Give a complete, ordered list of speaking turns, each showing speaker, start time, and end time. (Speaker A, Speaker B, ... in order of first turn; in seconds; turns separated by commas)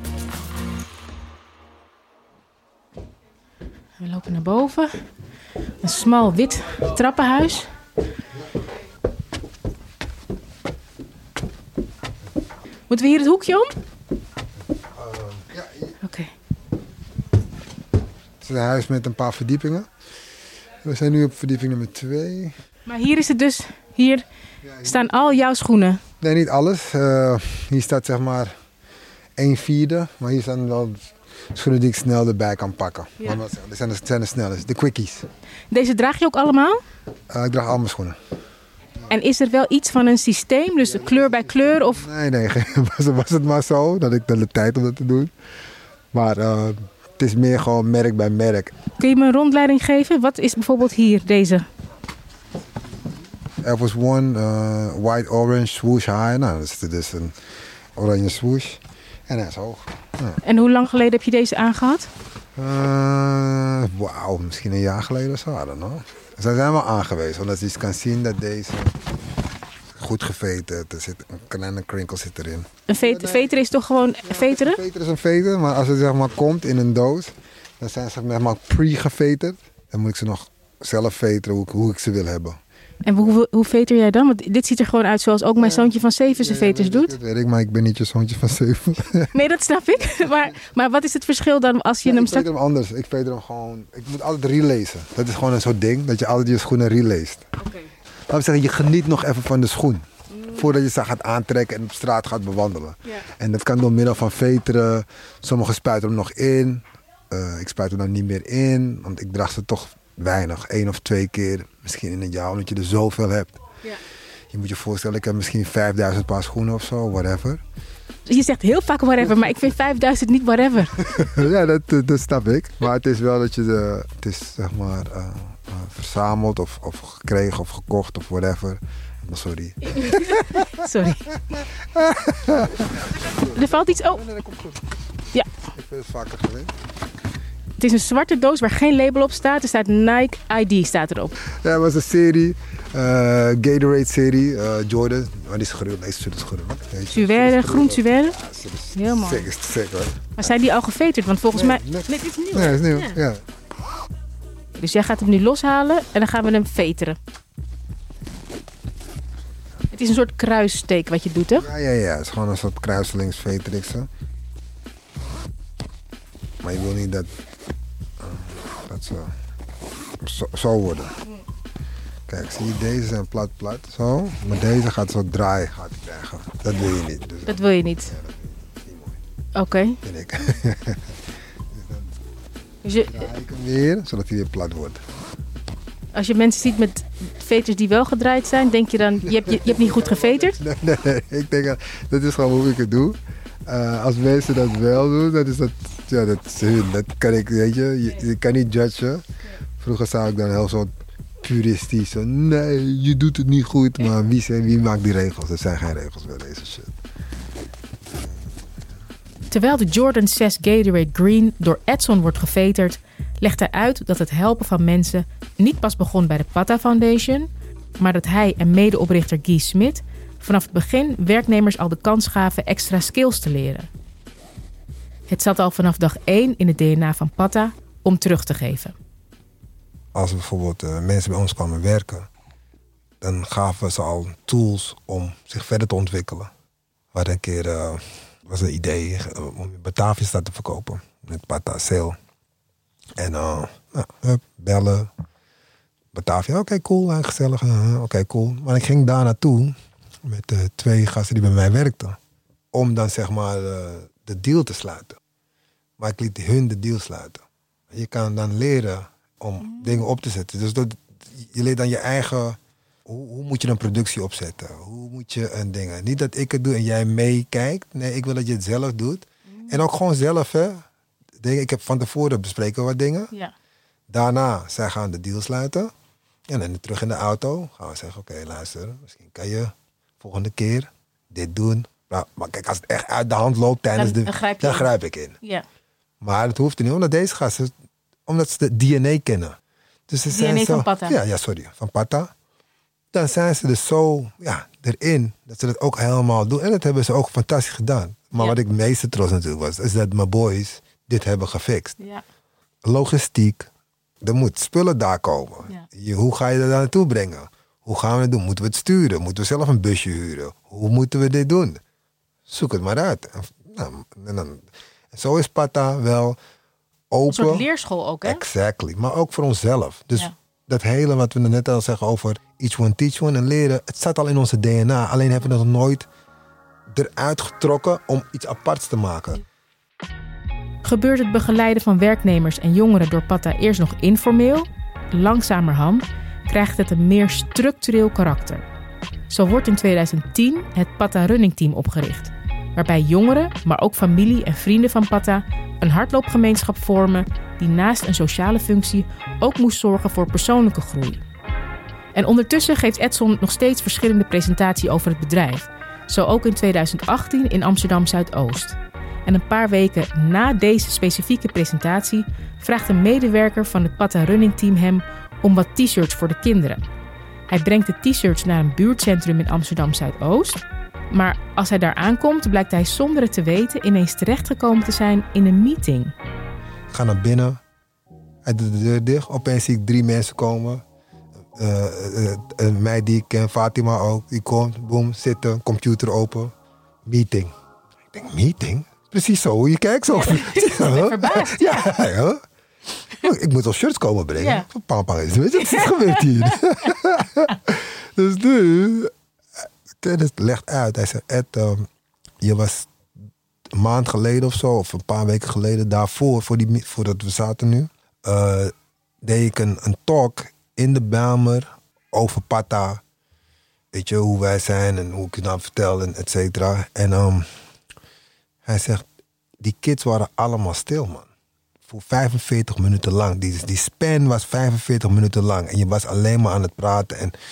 Speaker A: 4.0-4.9, Speaker A: 5.8-7.7, Speaker A: 12.9-13.8, Speaker B: 15.0-15.9, Speaker A: 16.0-16.3, Speaker B: 18.4-19.9, Speaker B: 20.8-22.5, Speaker A: 22.9-24.2, Speaker B: 24.6-25.4, Speaker A: 24.8-26.0, Speaker B: 26.2-28.5, Speaker B: 29.4-35.3, Speaker A: 35.7-36.8, Speaker B: 37.3-38.2, Speaker A: 39.1-42.0, Speaker B: 40.8-45.3, Speaker B: 46.1-48.7, Speaker A: 49.0-51.7, Speaker B: 53.6-57.4, Speaker B: 58.0-60.4, Speaker A: 60.4-62.1, Speaker B: 62.6-69.0, Speaker B: 70.0-73.6, Speaker A: 72.9-74.8, Speaker B: 74.2-82.6, Speaker A: 83.0-87.1, Speaker B: 85.6-89.3, Speaker A: 89.3-92.5, Speaker B: 92.0-97.5, Speaker A: 97.6-97.9, Speaker B: 98.3-113.6, Speaker A: 100.3-100.7, Speaker B: 114.5-117.6, Speaker A: 118.3-121.0, Speaker B: 121.1-130.8, Speaker A: 130.0-131.3, Speaker B: 131.8-134.9, Speaker A: 133.6-134.2, Speaker B: 135.7-136.7, Speaker A: 137.8-141.3, Speaker B: 141.5-150.5, Speaker A: 147.1-148.3, Speaker A: 149.0-149.5, Speaker A: 150.4-153.2, Speaker B: 151.5-153.4, Speaker A: 154.8-157.2, Speaker A: 159.9-161.7, Speaker B: 161.6-164.1, Speaker B: 166.6-167.3, Speaker B: 168.2-169.3, Speaker B: 170.2-171.2, Speaker B: 172.3-179.2, Speaker A: 177.5-178.1, Speaker A: 179.6-180.0, Speaker B: 180.0-181.2, Speaker B: 181.7-182.1, Speaker A: 182.8-183.3, Speaker B: 183.1-185.0, Speaker A: 186.1-190.6, Speaker B: 189.3-199.2, Speaker B: 199.8-207.0, Speaker A: 209.5-223.9, Speaker A: 225.3-228.9, Speaker B: 230.1-232.3, Speaker B: 233.2-236.5, Speaker B: 237.1-242.2, Speaker B: 243.2-245.1, Speaker B: 246.1-252.2, Speaker B: 252.7-255.2, Speaker B: 256.0-270.9, Speaker A: 259.7-259.9, Speaker A: 269.5-269.8, Speaker B: 271.4-273.3, Speaker B: 274.1-275.9, Speaker B: 276.5-285.4, Speaker A: 284.0-284.9, Speaker B: 286.2-287.7, Speaker B: 288.3-289.6, Speaker B: 290.1-292.3, Speaker A: 290.3-291.1, Speaker B: 293.1-302.0, Speaker B: 302.9-303.7, Speaker B: 304.2-311.8, Speaker B: 312.5-316.4, Speaker B: 317.1-317.7, Speaker A: 317.3-318.4, Speaker B: 318.2-326.1, Speaker B: 326.9-329.4, Speaker A: 330.8-338.6, Speaker A: 339.3-351.2, Speaker A: 352.1-366.8, Speaker A: 367.5-376.1, Speaker B: 376.9-377.6, Speaker B: 378.4-380.8, Speaker B: 381.6-386.5, Speaker B: 387.1-387.5, Speaker B: 388.1-392.4, Speaker A: 390.2-392.0, Speaker B: 393.2-399.1, Speaker A: 394.4-394.7, Speaker A: 395.6-396.2, Speaker B: 400.0-401.9, Speaker B: 402.4-402.9, Speaker B: 403.7-413.0, Speaker B: 413.9-417.5, Speaker B: 418.6-419.1, Speaker B: 419.6-421.3, Speaker B: 421.9-427.3